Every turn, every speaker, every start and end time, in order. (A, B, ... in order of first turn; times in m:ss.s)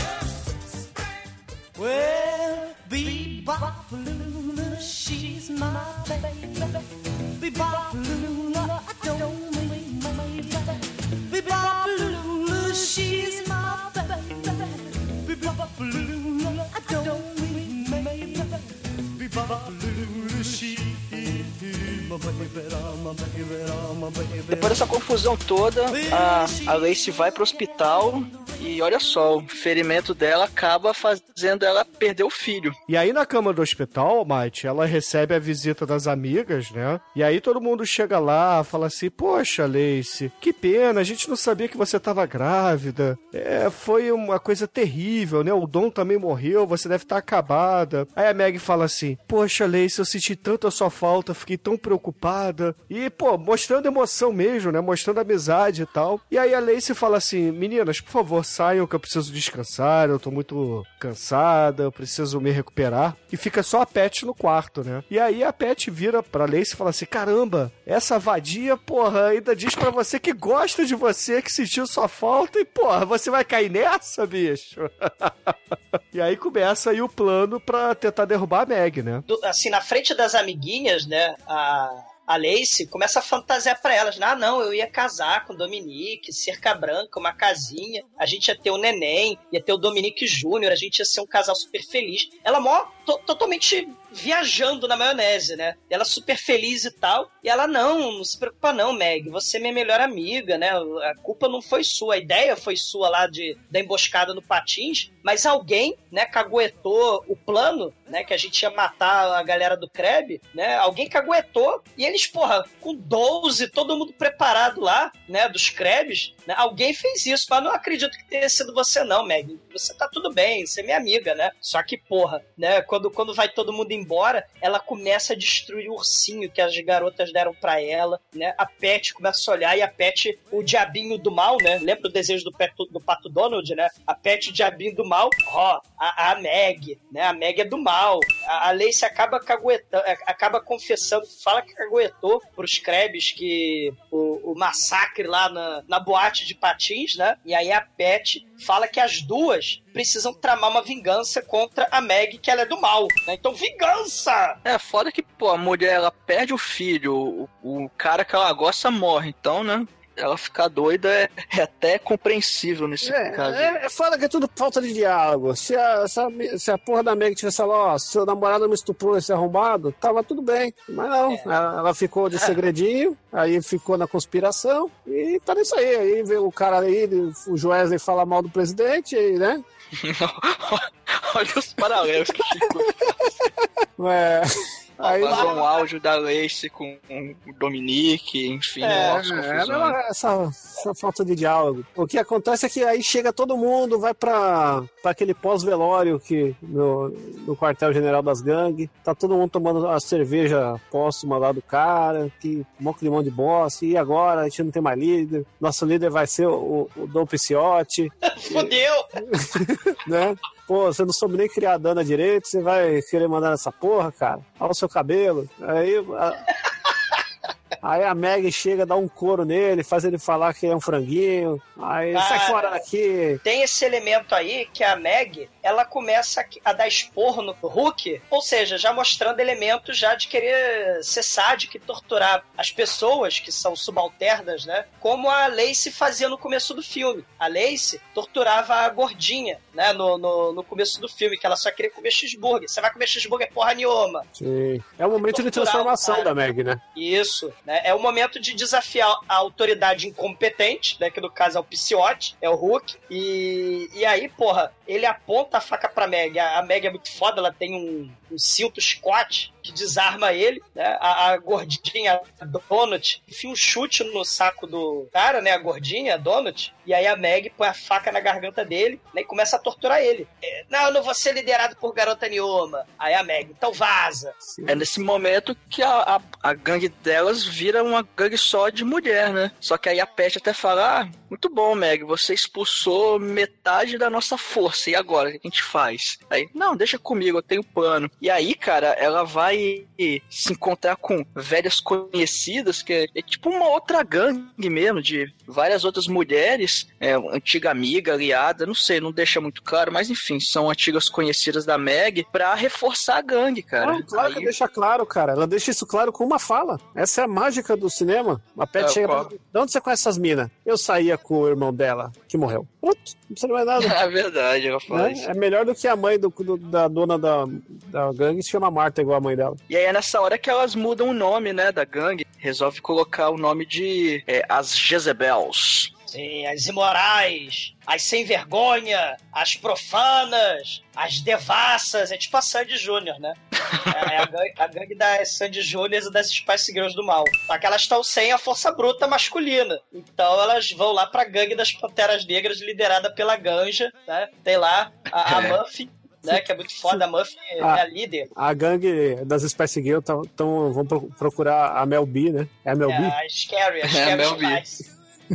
0:01.8-0:24.7 A
0:24.5-0:32.7 B
0:25.9-0:26.8 A
0:32.9-1:15.5 C
1:16.1-1:19.2 C
1:19.3-2:34.6 D
2:34.6-2:43.7 B
2:43.0-2:59.6 E
3:00.0-3:02.9 B
3:04.0-3:04.5 E
3:05.0-3:05.5 E
3:05.0-3:10.0 B
3:05.2-3:05.8 D
3:08.8-3:09.2 D
3:08.8-3:28.7 E
3:28.4-3:29.1 D
3:29.2-3:36.4 E
3:37.8-3:43.4 E
3:42.1-3:42.7 D
3:43.4-4:04.2 D
4:04.4-4:06.8 E
4:05.2-4:06.3 D
4:07.0-4:34.3 D
4:34.5-4:34.9 E
4:34.7-5:04.5 B
5:03.8-5:14.0 E
5:08.8-5:09.3 B
5:13.8-5:15.3 B
5:14.9-5:19.6 E
5:19.7-5:25.9 B
5:26.1-5:33.4 D
5:33.9-5:48.3 D
5:45.2-5:45.6 B
5:48.3-5:53.2 E
5:52.9-5:54.8 D
5:53.9-5:54.6 B